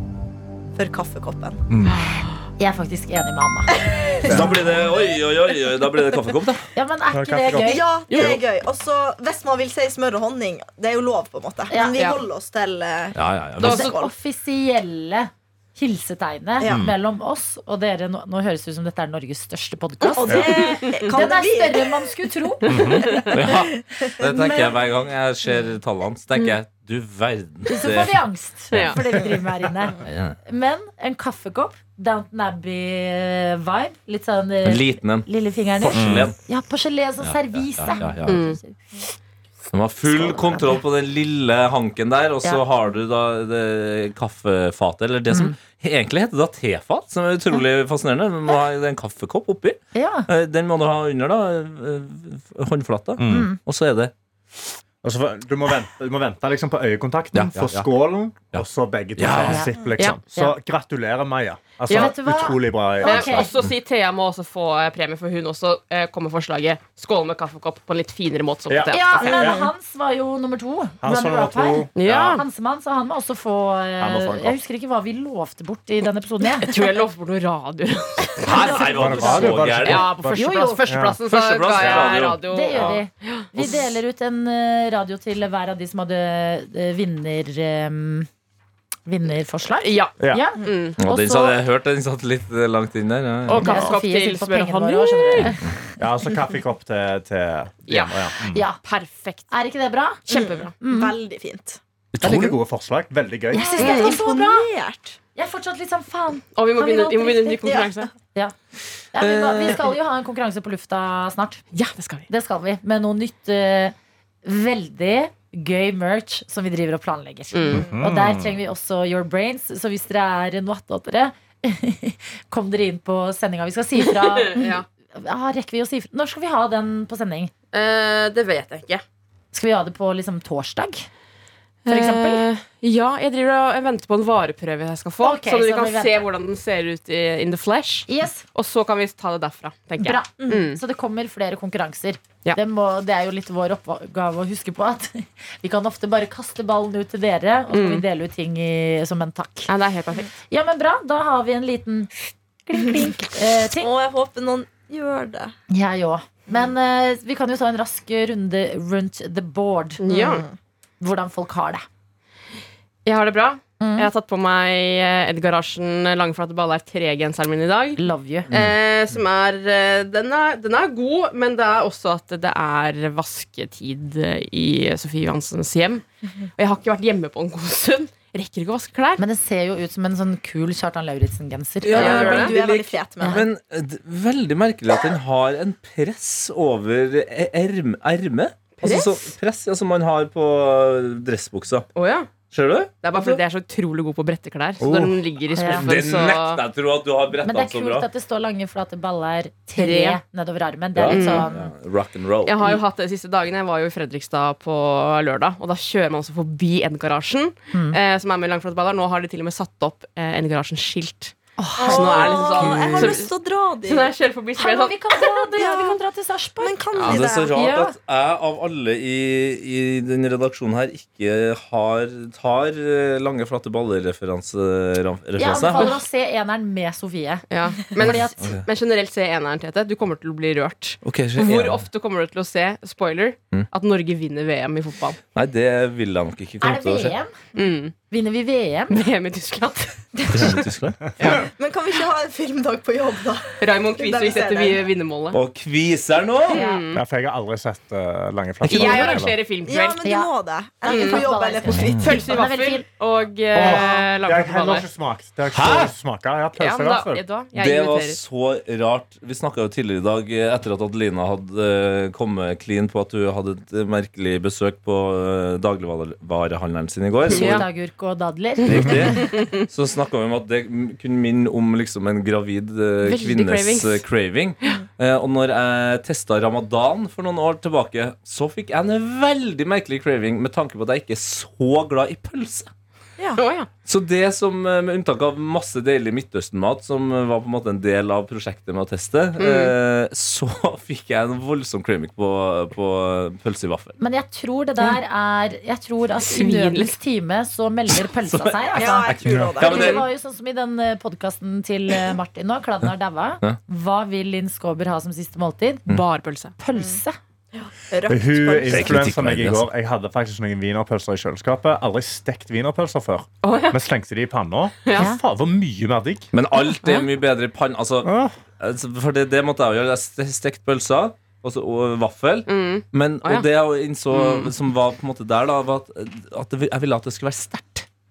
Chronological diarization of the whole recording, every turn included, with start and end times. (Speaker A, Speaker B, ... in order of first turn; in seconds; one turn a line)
Speaker A: 0.8-1.6
Speaker B: 1.7-2.0
Speaker C: 1.9-2.3
Speaker D: 2.6-3.8
Speaker A: 3.8-4.4
Speaker B: 4.2-4.7
Speaker E: 4.2-6.7
Speaker D: 6.8-7.9
Speaker B: 7.1-8.4
Speaker A: 7.6-14.1
Speaker C: 8.1-8.4
Speaker D: 11.7-12.2
Speaker C: 12.0-12.2
Speaker E: 13.1-13.9
Speaker C: 13.6-13.9
Speaker D: 13.6-23.3
Speaker A: 16.6-16.9
Speaker B: 16.6-16.9
Speaker A: 20.0-22.1
Speaker B: 20.3-20.6
Speaker B: 22.7-23.1
Speaker C: 22.7-23.3
Speaker A: 23.1-24.6
Speaker E: 23.3-28.2
Speaker D: 24.2-24.7
Speaker D: 27.7-38.8
Speaker E: 28.7-29.0
Speaker C: 28.7-29.0
Speaker E: 30.0-30.4
Speaker E: 34.6-36.4
Speaker B: 35.9-36.3
Speaker E: 37.2-38.5
Speaker C: 38.2-38.6
Speaker E: 39.7-54.1
Speaker D: 40.3-40.8
Speaker D: 45.3-45.6
Speaker D: 49.9-50.3
Speaker B: 53.2-53.5
Speaker D: 53.3-53.6
Speaker B: 55.0-63.5
Speaker E: 57.3-57.9
Speaker E: 59.1-59.6
Speaker D: 59.5-60.6
Speaker C: 61.9-62.1
Speaker D: 61.9-63.6
Speaker C: 63.0-69.6
Speaker B: 68.7-69.7
Speaker D: 68.9-76.8
Speaker A: 69.2-69.7
Speaker B: 71.0-72.4
Speaker C: 71.9-72.4
Speaker B: 74.0-74.6
Speaker C: 76.6-78.8
Speaker E: 78.4-80.2
Speaker D: 78.5-79.6
Speaker B: 78.8-81.2
Speaker C: 79.8-83.5
Speaker D: 80.3-80.8
Speaker E: 81.2-83.0
Speaker B: 81.8-82.1
Speaker D: 82.3-88.3
Speaker E: 83.6-83.9
Speaker D: 89.1-91.6
Speaker C: 89.8-91.0
Speaker B: 90.2-90.5
Speaker E: 91.0-93.9
Speaker C: 93.5-95.6
Speaker D: 93.5-95.7
Speaker B: 96.0-98.6
Speaker C: 97.9-99.5
Speaker D: 98.5-98.8
Speaker D: 99.5-100.3
Speaker C: 100.3-100.8
Speaker A: 100.3-101.8
Speaker D: 100.8-101.1
Speaker E: 102.1-102.6
Speaker B: 102.2-103.9
Speaker D: 103.5-104.7
Speaker A: 103.5-105.2
Speaker C: 103.8-104.2
Speaker D: 105.3-108.5
Speaker C: 106.5-108.1
Speaker A: 107.6-107.9
Speaker D: 109.1-111.6
Speaker C: 111.7-112.3
Speaker D: 112.3-127.5
Speaker C: 117.5-117.9
Speaker B: 117.7-118.6
Speaker C: 124.0-124.8
Speaker C: 127.7-129.0
Speaker D: 129.5-131.1
Speaker C: 131.8-140.8
Speaker D: 131.9-132.4
Speaker D: 135.2-136.3
Speaker D: 138.1-138.5
Speaker D: 140.0-149.7
Speaker C: 147.7-148.0
Speaker C: 149.7-150.3
Speaker D: 150.5-153.9
Speaker A: 153.8-155.5
Speaker D: 155.7-160.4
Speaker C: 160.0-160.4
Speaker A: 160.1-160.5
Speaker D: 161.0-161.9
Speaker C: 163.1-176.0
Speaker D: 163.8-164.1
Speaker D: 168.0-168.5
Speaker E: 168.5-168.8
Speaker C: 176.6-179.2
Speaker D: 179.2-182.6
Speaker A: 181.8-183.4
Speaker C: 181.9-182.9
Speaker E: 182.0-191.9
Speaker C: 188.8-189.2
Speaker C: 191.9-192.3
Speaker E: 192.5-193.4
Speaker C: 193.0-196.6
Speaker B: 194.8-195.2
Speaker D: 195.6-195.9
Speaker E: 195.8-198.1
Speaker D: 197.4-201.7
Speaker C: 199.8-200.2
Speaker E: 201.0-202.8
Speaker C: 201.1-201.5
Speaker C: 202.4-213.3
Speaker D: 207.7-208.0
Speaker D: 211.6-212.7
Speaker A: 211.8-214.1
Speaker E: 212.6-213.2
Speaker C: 213.9-215.4
Speaker D: 214.6-217.9
Speaker A: 215.6-216.0
Speaker A: 216.6-217.6
Speaker E: 217.0-226.0
Speaker D: 225.4-228.5
Speaker C: 227.5-235.2
Speaker E: 228.4-228.6
Speaker E: 231.0-231.9
Speaker E: 235.3-237.1
Speaker D: 236.6-237.4
Speaker C: 237.6-237.9
Speaker D: 238.1-239.1
Speaker C: 238.9-241.5
Speaker E: 240.3-241.4
Speaker A: 241.3-244.9
Speaker C: 243.6-245.4
Speaker E: 245.3-246.6
Speaker C: 246.5-247.0
Speaker D: 246.5-246.9
Speaker B: 246.9-249.3
Speaker C: 248.7-250.0
Speaker D: 248.7-249.3
Speaker A: 249.7-252.3
Speaker D: 250.0-250.3
Speaker D: 250.8-252.8
Speaker C: 250.9-251.3
Speaker E: 251.7-252.1
Speaker C: 252.0-254.9
Speaker B: 253.5-257.2
Speaker E: 255.5-255.9
Speaker C: 256.6-258.2
Speaker E: 257.6-267.7
Speaker C: 267.3-267.7
Speaker D: 267.3-269.2
Speaker E: 268.6-282.7
Speaker B: 268.7-269.1
Speaker C: 269.3-269.6
Speaker C: 273.0-274.0
Speaker C: 283.4-283.7
Speaker E: 283.9-294.0
Speaker C: 289.4-289.7
Speaker D: 294.0-305.9
Speaker C: 296.2-297.0
Speaker E: 298.3-300.1
Speaker A: 298.8-300.1
Speaker C: 305.9-306.6
Speaker D: 306.6-307.2
Speaker A: 307.5-309.0
Speaker B: 308.1-316.3
Speaker E: 308.7-309.7
Speaker C: 313.4-313.8
Speaker D: 314.9-315.2
Speaker E: 316.3-327.9
Speaker C: 316.8-317.1
Speaker B: 318.0-318.4
Speaker C: 322.5-323.5
Speaker C: 324.1-324.5